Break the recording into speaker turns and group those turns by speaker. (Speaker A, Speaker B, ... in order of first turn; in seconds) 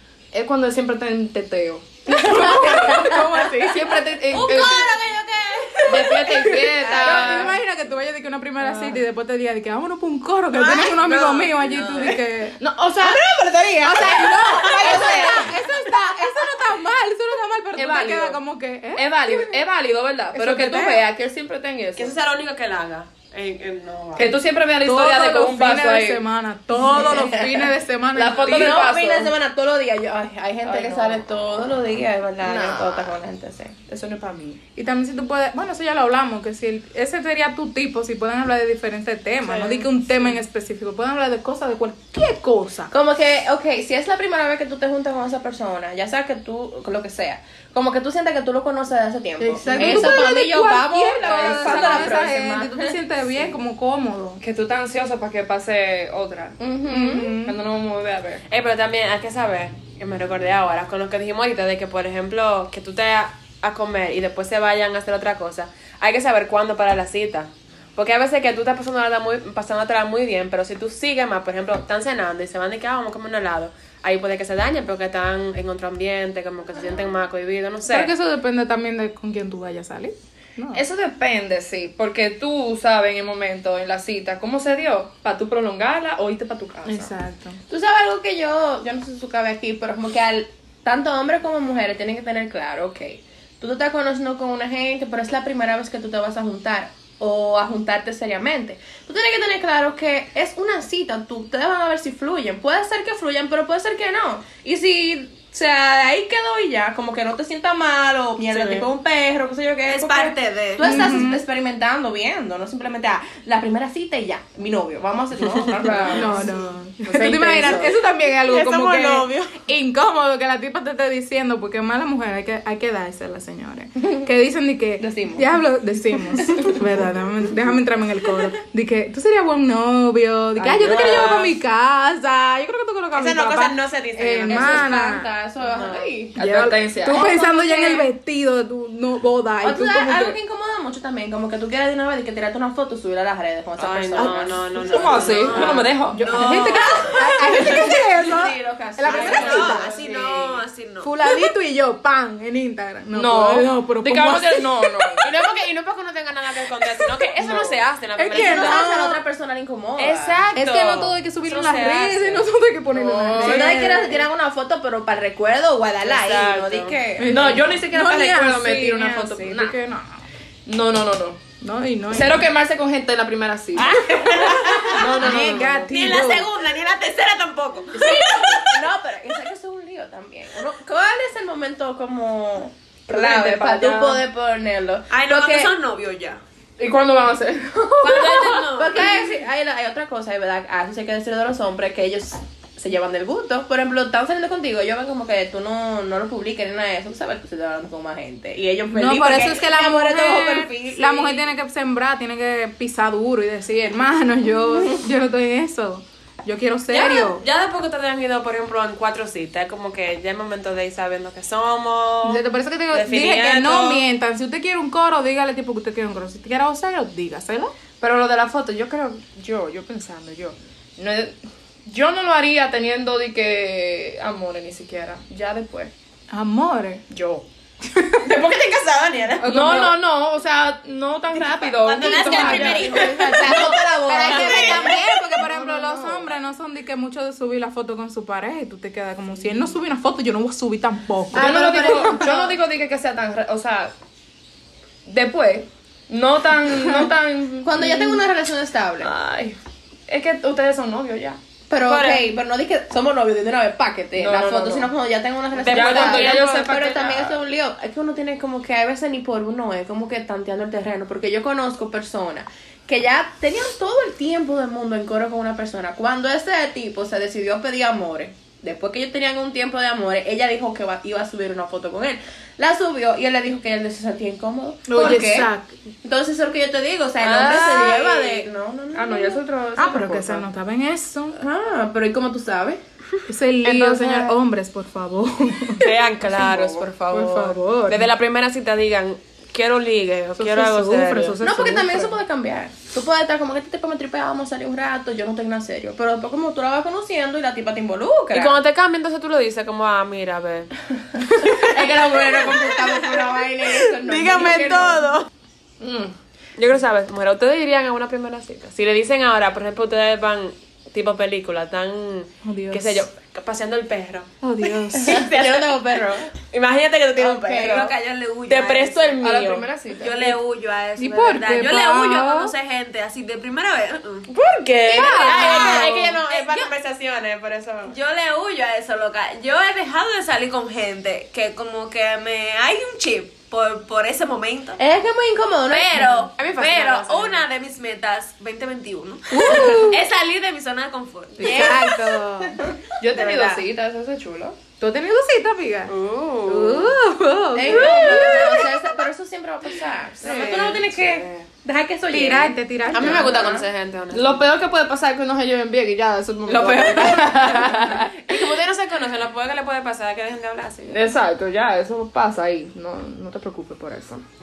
Speaker A: 0.3-4.9, 5.9-7.5, 12.6-13.2, 13.9-15.5, 17.8-18.4, 18.9-22.2, 24.2-26.2, 28.1-29.3, 30.6-31.2, 32.4-33.2, 33.9-34.6, 49.7-50.4, 51.2-52.3, 54.4-58.4, 80.7-87.1, 115.8-116.5, 117.0-117.9, 136.3-137.4, 144.2-146.9, 153.1-155.3, 157.4-157.8, 162.9-163.8, 167.2-169.8, 170.7-171.4, 172.1-174.1, 174.9-175.9, 183.1-184.2, 186.8-188.7, 218.0-225.9, 227.1-227.4, 229.4-233.0, 234.2-236.3, 241.3-243.9, 245.1-248.2, 249.0-249.6, 250.1-251.4, 254.2-254.9, 255.7-257.4, 277.2-278.2, 278.9-280.5, 283.7-283.9, 286.3-286.9, 305.8-306.1, 319.2-320.4, 343.0-344.6, 350.9-351.4, 354.1-358.6, 360.9-364.2
Speaker B: 2.1-4.0, 6.2-12.6, 13.8-19.6, 20.3-21.0, 24.2-28.8, 34.8-42.9, 49.4-54.4, 56.9-57.6, 77.9-80.8, 86.8-87.6, 110.8-111.4, 116.1-135.3, 136.4-140.4, 146.1-149.9, 151.0-155.3, 158.2-159.2, 160.5-164.3, 167.2-170.2, 171.6-172.4, 175.0-176.5, 198.9-207.4, 212.2-217.7, 226.3-227.0, 227.9-228.3, 229.4-230.0, 232.0-242.2, 274.9-275.7, 279.8-281.4, 283.3-286.0, 287.1-288.1, 290.4-292.2, 312.4-313.1, 314.4-315.3, 321.0-322.5, 324.9-325.9, 339.3-340.0, 341.4-342.6, 344.8-349.0, 352.1-353.4, 357.0-357.4
Speaker C: 2.6-3.0, 6.7-7.4, 10.6-11.5, 13.0-15.6, 26.8-27.7, 28.4-33.9, 42.9-53.0, 56.6-57.3, 87.7-117.9, 118.5-119.5, 125.0-125.6, 126.4-126.8, 130.9-131.3, 134.5-136.4, 137.1-138.1, 139.6-145.6, 147.1-150.6, 158.3-160.4, 163.3-167.7, 173.9-175.7, 178.0-185.7, 188.8-201.4, 228.2-229.5, 232.1-235.1, 241.3-242.6, 247.6-249.1, 251.7-275.5, 276.0-279.4, 281.4-282.8, 283.7-284.3, 291.4-298.6, 301.4-305.1, 315.0-316.4, 317.2-317.9, 324.9-326.0, 334.8-336.3, 341.4-342.7, 347.6-353.7
Speaker D: 4.3-6.4, 14.5-15.3, 109.9-111.2, 145.2-147.2, 149.1-151.1, 173.8-175.3, 175.9-178.8, 185.1-186.4, 188.0-189.2, 231.5-235.0, 301.4-305.3, 317.5-319.2, 320.0-324.3, 325.2-326.7, 327.9-334.8, 335.7-341.8, 343.3-343.6
Speaker E: 11.7-12.1, 22.0-24.3, 39.5-40.1, 58.5-78.1, 108.5-108.9, 130.7-131.6, 133.1-135.0, 135.6-136.1, 143.8-145.9, 149.2-149.7, 155.2-158.9, 160.0-162.5, 166.0-167.0, 206.9-214.1, 251.8-252.3, 255.6-257.1, 277.3-278.3, 285.8-291.4, 298.3-300.7, 306.6-314.3, 315.0-315.8, 316.4-317.9, 318.5-319.7, 324.3-328.0, 336.2-337.5, 343.1-343.5, 345.9-347.0, 350.2-350.9, 352.9-354.5, 356.8-357.2, 357.9-361.0